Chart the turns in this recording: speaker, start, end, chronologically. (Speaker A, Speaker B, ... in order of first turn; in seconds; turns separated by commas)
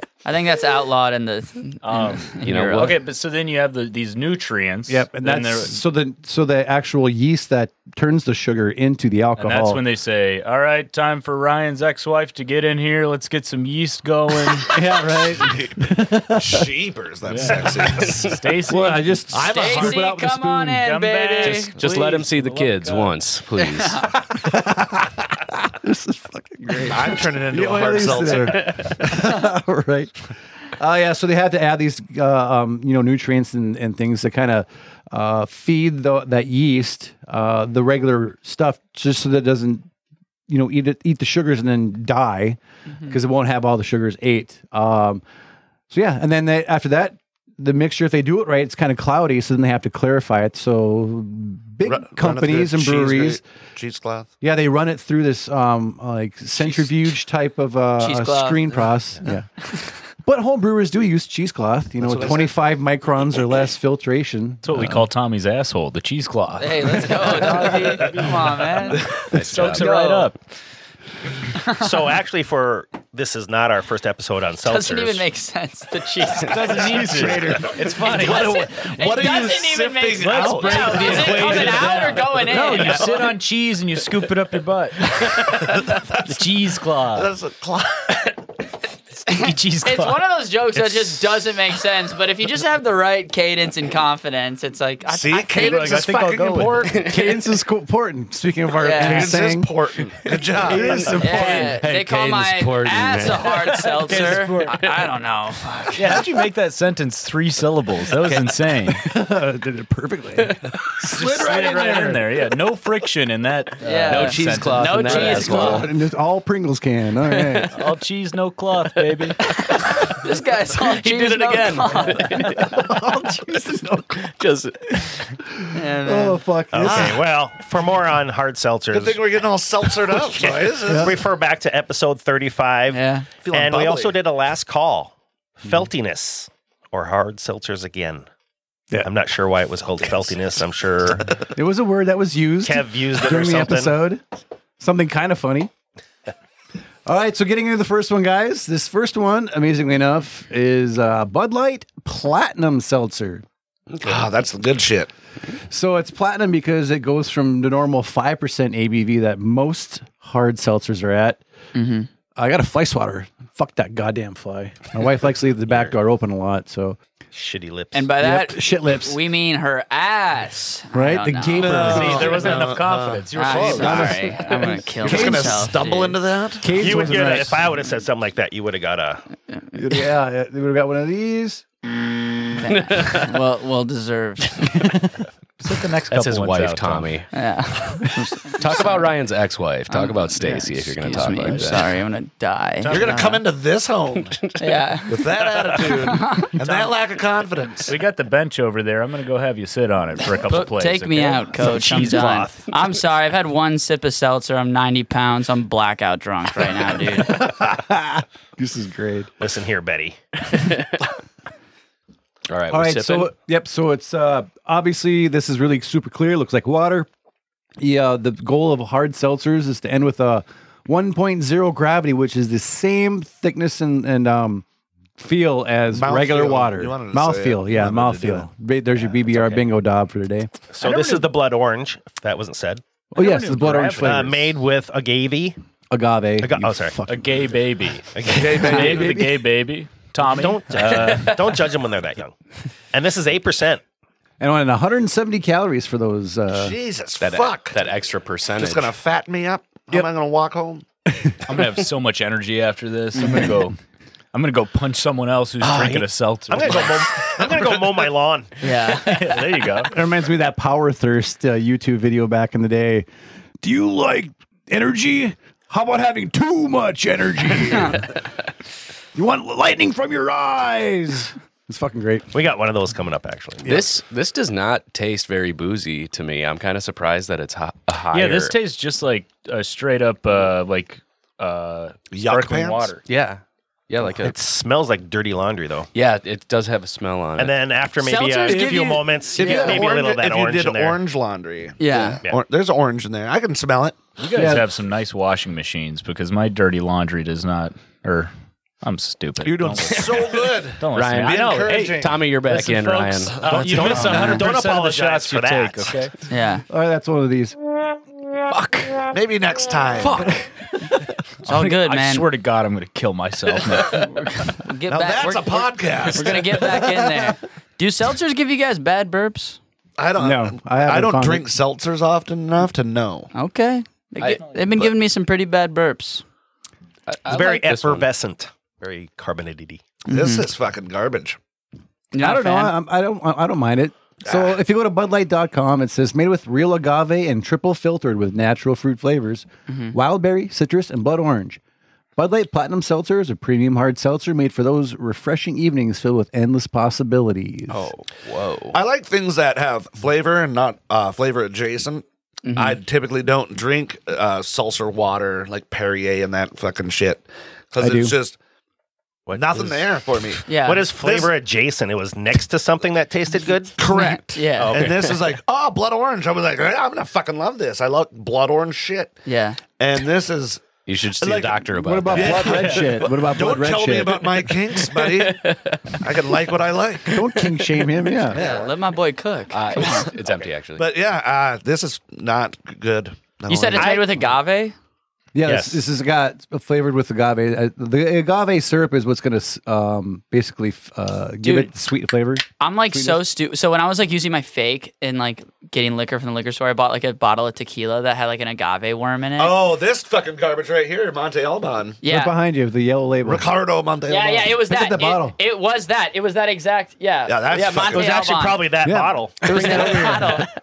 Speaker A: 0.2-2.9, Speaker B: 1.8-5.8, Speaker C: 2.4-3.0, Speaker D: 4.9-9.8, Speaker B: 9.4-14.8, Speaker D: 14.7-16.7, Speaker E: 15.4-18.4, Speaker B: 17.3-19.2, Speaker C: 18.0-18.3, Speaker D: 18.7-20.8, Speaker E: 19.3-20.0, Speaker A: 19.5-21.7, Speaker B: 20.8-23.1, Speaker C: 21.4-24.1, Speaker D: 24.3-30.1, Speaker E: 26.8-28.9, Speaker D: 30.8-39.9, Speaker D: 40.5-45.2, Speaker A: 42.9-43.1, Speaker D: 45.9-53.4, Speaker E: 51.8-54.3, Speaker D: 54.4-59.5, Speaker A: 58.0-58.8, Speaker D: 60.2-65.0, Speaker E: 62.0-62.5, Speaker B: 64.6-70.4, Speaker A: 66.6-69.0, Speaker C: 69.3-69.9, Speaker A: 69.6-70.3, Speaker F: 71.7-75.2, Speaker A: 74.6-77.3, Speaker B: 76.5-78.7, Speaker E: 77.9-82.0, Speaker A: 78.1-83.2, Speaker B: 80.2-87.3, Speaker E: 82.8-83.2, Speaker E: 85.6-88.3, Speaker A: 89.3-96.0, Speaker B: 89.3-90.2, Speaker B: 90.8-91.3, Speaker E: 95.0-97.0, Speaker B: 95.5-97.1, Speaker C: 96.8-97.3, Speaker D: 97.0-99.7, Speaker A: 98.8-99.3, Speaker E: 98.9-101.2, Speaker D: 100.6-101.8, Speaker B: 100.9-104.9, Speaker A: 101.2-106.2, Speaker C: 101.6-104.7, Speaker B: 105.9-109.0, Speaker D: 109.0-112.3, Speaker B: 111.1-115.8, Speaker A: 113.8-115.8, Speaker C: 114.1-115.9, Speaker D: 115.4-117.7, Speaker C: 117.3-117.7, Speaker B: 117.7-119.4, Speaker C: 119.0-119.2, Speaker A: 119.4-122.4, Speaker C: 120.7-122.9, Speaker D: 122.5-124.3, Speaker C: 124.2-125.1, Speaker D: 125.5-127.2, Speaker A: 125.7-126.4, Speaker F: 126.7-129.2, Speaker E: 128.9-131.1, Speaker F: 130.1-138.3, Speaker D: 130.8-131.1, Speaker A: 132.9-133.3, Speaker E: 133.4-134.2, Speaker F: 139.0-141.4, Speaker D: 141.5-144.2, Speaker F: 142.6-143.9, Speaker D: 144.8-145.7, Speaker D: 147.1-153.4, Speaker C: 153.9-154.2, Speaker E: 154.0-155.1, Speaker D: 155.7-161.4, Speaker A: 161.7-162.1, Speaker D: 162.3-167.0, Speaker F: 167.3-168.1, Speaker A: 167.9-171.8, Speaker D: 168.2-169.2, Speaker D: 170.9-172.5, Speaker E: 171.6-174.1, Speaker B: 171.8-174.4, Speaker A: 173.3-176.2, Speaker D: 173.7-175.7, Speaker E: 175.0-176.7, Speaker D: 176.6-177.7, Speaker F: 176.7-179.2, Speaker D: 179.7-181.6, Speaker A: 182.6-184.7, Speaker C: 182.6-183.4, Speaker D: 184.7-185.1, Speaker B: 185.6-187.2, Speaker C: 186.1-187.3, Speaker A: 187.3-189.1, Speaker C: 188.6-191.9, Speaker A: 189.9-193.4, Speaker B: 191.0-191.9, Speaker B: 192.8-193.2, Speaker E: 192.9-194.4, Speaker A: 194.6-195.2, Speaker E: 195.1-198.0, Speaker A: 195.8-196.5, Speaker B: 197.9-202.5, Speaker A: 200.5-207.4, Speaker F: 201.7-202.5, Speaker D: 207.2-209.3, Speaker F: 209.4-210.2, Speaker C: 212.5-213.3, Speaker D: 212.7-217.1, Speaker D: 217.8-224.6, Speaker D: 225.2-230.5, Speaker E: 225.9-228.5, Speaker F: 230.7-232.8, Speaker B: 230.8-231.3, Speaker D: 233.1-234.4, Speaker B: 233.1-234.4, Speaker F: 234.0-235.6, Speaker D: 235.9-237.4, Speaker F: 236.4-237.0, Speaker B: 237.1-241.6, Speaker E: 238.2-239.2, Speaker D: 238.6-239.4, Speaker F: 240.2-242.3, Speaker F: 242.9-243.8, Speaker D: 244.4-246.7, Speaker E: 246.5-247.8, Speaker C: 247.2-248.9, Speaker E: 248.5-250.8, Speaker D: 251.2-251.5, Speaker B: 251.4-253.8, Speaker A: 253.1-253.5, Speaker B: 254.3-257.4, Speaker F: 255.6-258.6, Speaker A: 258.6-259.1, Speaker B: 258.9-259.9, Speaker D: 259.9-263.1, Speaker D: 263.6-268.1, Speaker D: 269.1-272.3, Speaker F: 272.3-273.8, Speaker C: 273.6-278.5, Speaker B: 278.1-283.0, Speaker E: 282.1-282.9, Speaker C: 283.1-284.4, Speaker F: 284.2-285.9, Speaker C: 285.9-287.5, Speaker F: 287.4-291.0, Speaker A: 288.0-289.8, Speaker E: 289.4-294.2, Speaker A: 291.8-292.2, Speaker B: 294.2-306.1, Speaker D: 294.3-294.6, Speaker E: 299.4-302.2, Speaker C: 300.9-303.9, Speaker F: 303.4-306.1, Speaker E: 303.9-304.4, Speaker A: 306.3-306.6, Speaker D: 306.7-307.6, Speaker B: 308.5-309.0, Speaker E: 309.1-310.3, Speaker B: 310.0-310.4, Speaker A: 310.0-310.3, Speaker A: 311.4-312.3, Speaker B: 311.4-314.6, Speaker A: 313.9-319.6, Speaker E: 314.9-316.8, Speaker E: 320.0-323.3, Speaker D: 320.2-321.5, Speaker A: 323.3-326.2, Speaker C: 324.2-324.9, Speaker C: 327.1-328.1, Speaker F: 327.3-329.9, Speaker A: 330.1-330.5, Speaker E: 330.1-331.4, Speaker A: 332.1-332.7, Speaker D: 332.2-341.6, Speaker A: 339.7-339.9, Speaker D: 342.1-347.9, Speaker C: 347.7-348.8, Speaker E: 348.7-358.4, Speaker A: 352.4-352.8, Speaker D: 357.8-358.1, Speaker F: 359.3-359.8, Speaker E: 359.3-361.3, Speaker A: 360.5-360.9, Speaker F: 360.5-363.8, Speaker E: 363.8-369.1, Speaker A: 363.9-364.8, Speaker F: 364.5-364.9, Speaker C: 364.7-365.1, Speaker A: 369.2-369.6, Speaker E: 369.8-375.5, Speaker C: 370.9-372.9, Speaker D: 371.8-374.5, Speaker C: 374.8-376.0, Speaker E: 376.0-377.2, Speaker D: 377.1-378.4, Speaker C: 377.3-377.8, Speaker E: 378.3-378.7, Speaker A: 378.3-380.1, Speaker C: 379.5-380.9, Speaker E: 380.8-384.1, Speaker A: 383.5-384.7, Speaker F: 383.8-384.0, Speaker D: 385.3-393.2, Speaker F: 385.4-385.8, Speaker A: 391.4-391.7, Speaker A: 392.6-399.6, Speaker E: 399.4-402.0, Speaker A: 402.0-402.4, Speaker D: 402.0-403.5, Speaker E: 403.2-404.6, Speaker A: 404.1-408.6, Speaker D: 404.7-405.4, Speaker E: 407.2-408.1, Speaker F: 407.8-410.0, Speaker D: 408.8-410.4, Speaker A: 409.4-410.5